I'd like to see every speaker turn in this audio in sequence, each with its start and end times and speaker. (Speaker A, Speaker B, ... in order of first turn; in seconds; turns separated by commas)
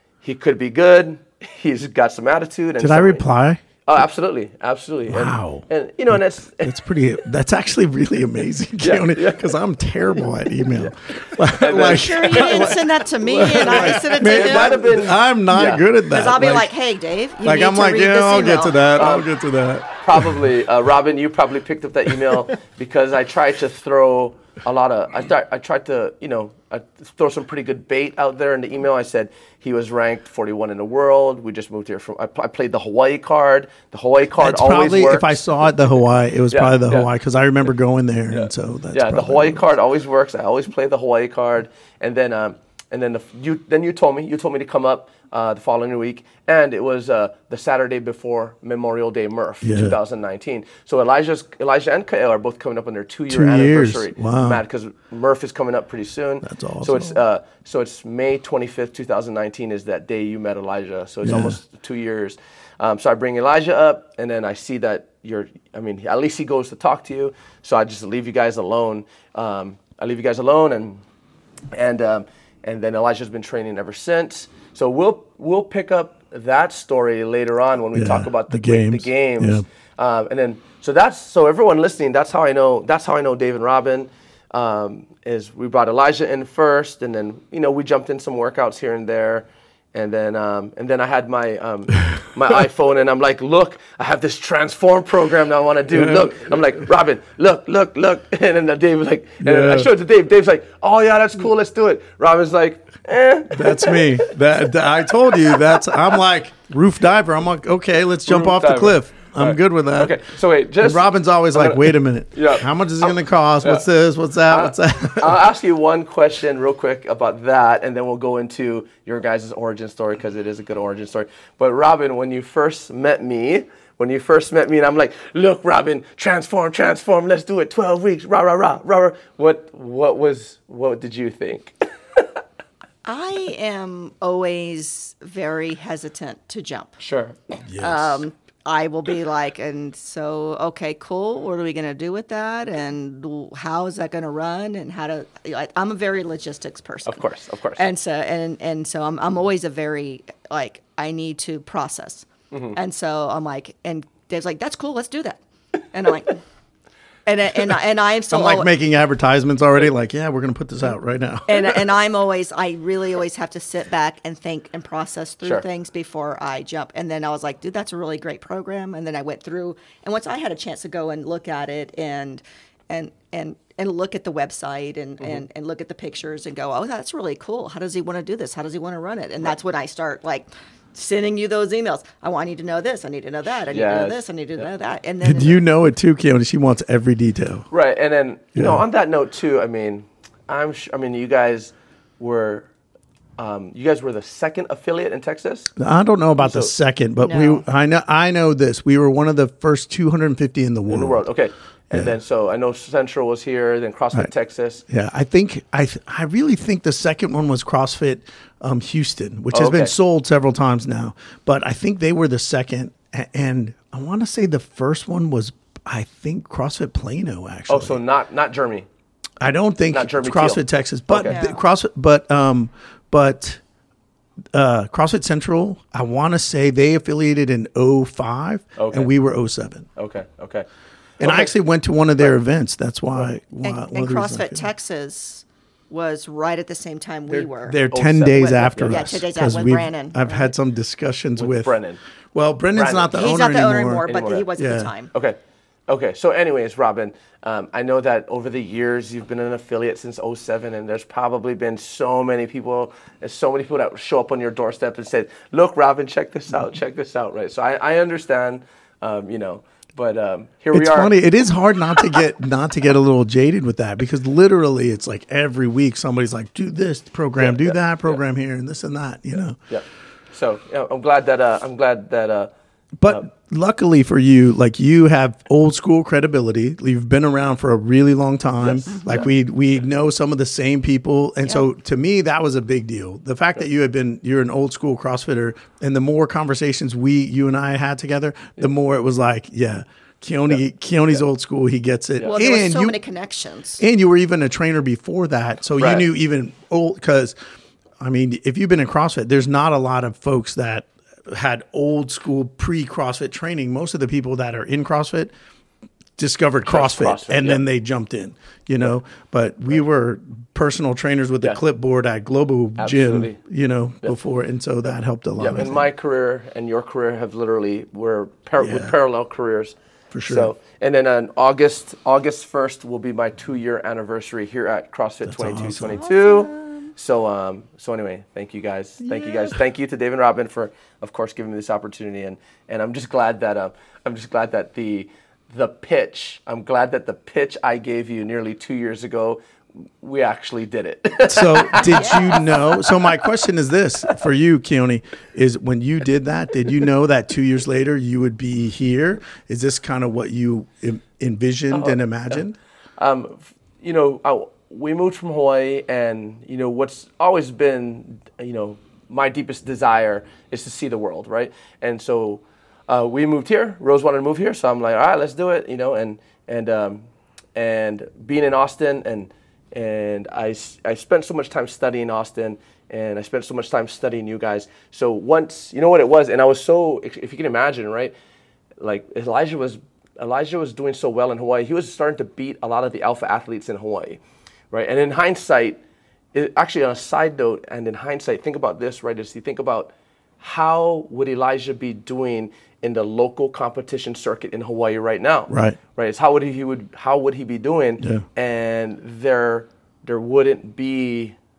Speaker A: 0.2-3.2, Speaker B: 2.8-3.6, Speaker A: 3.8-6.8, Speaker B: 5.1-16.7, Speaker A: 8.8-9.6, Speaker A: 10.1-12.8, Speaker C: 11.7-14.8, Speaker A: 13.4-15.8, Speaker C: 16.1-18.9, Speaker B: 17.4-20.4, Speaker A: 18.9-19.3, Speaker A: 19.9-35.4, Speaker B: 34.4-39.6, Speaker A: 36.5-37.1, Speaker A: 38.3-71.0, Speaker B: 49.6-50.0, Speaker B: 53.3-54.6, Speaker B: 56.4-57.2, Speaker B: 61.2-61.6, Speaker A: 71.7-104.3, Speaker B: 77.9-79.6, Speaker B: 95.9-96.4, Speaker B: 99.4-99.9, Speaker B: 103.5-110.2, Speaker A: 105.3-105.8, Speaker A: 108.3-112.7, Speaker B: 110.8-115.4, Speaker A: 114.5-132.3, Speaker C: 133.0-136.9, Speaker A: 137.0-137.5, Speaker B: 137.7-138.2, Speaker C: 137.8-147.2, Speaker A: 147.1-147.8, Speaker C: 147.8-155.4, Speaker A: 152.5-152.8, Speaker C: 155.9-156.4, Speaker C: 157.2-158.7, Speaker B: 158.3-161.8, Speaker C: 161.4-185.6, Speaker A: 183.7-184.2, Speaker B: 185.2-187.7, Speaker A: 187.7-192.7, Speaker B: 188.6-188.8, Speaker A: 193.4-195.7, Speaker B: 195.8-201.2, Speaker A: 196.4-196.7, Speaker C: 197.2-197.6, Speaker A: 200.9-204.8, Speaker B: 204.9-218.0, Speaker A: 209.5-209.9, Speaker A: 217.7-218.9, Speaker B: 219.4-223.6, Speaker A: 219.9-221.4, Speaker C: 221.2-221.6, Speaker B: 224.5-229.9, Speaker A: 228.8-229.1, Speaker A: 229.9-230.7, Speaker A: 231.2-231.5, Speaker B: 231.2-234.6, Speaker C: 233.6-237.8, Speaker B: 237.4-241.7, Speaker A: 237.9-239.1, Speaker C: 238.3-240.5, Speaker A: 241.4-242.0, Speaker B: 242.3-244.1, Speaker A: 242.7-243.2, Speaker C: 243.1-245.1, Speaker A: 244.1-244.5, Speaker B: 244.6-244.9, Speaker A: 245.9-261.1, Speaker B: 260.7-269.6, Speaker A: 267.4-268.2, Speaker A: 269.7-272.5, Speaker B: 273.0-293.0, Speaker A: 278.6-279.2, Speaker C: 292.2-293.8, Speaker B: 293.8-297.3, Speaker A: 295.8-296.0, Speaker B: 298.0-305.3, Speaker B: 306.2-315.9, Speaker A: 306.6-307.6, Speaker A: 312.8-313.4, Speaker A: 315.4-319.8, Speaker B: 318.6-318.9, Speaker B: 320.1-320.5, Speaker A: 320.3-339.4, Speaker B: 325.2-326.0, Speaker C: 325.9-326.9, Speaker A: 340.0-343.2, Speaker B: 341.2-352.6, Speaker C: 341.9-342.4, Speaker A: 351.7-352.4, Speaker A: 353.0-367.0, Speaker A: 367.5-378.1, Speaker A: 378.8-384.2, Speaker A: 384.7-385.8, Speaker A: 386.3-401.4, Speaker B: 395.5-395.8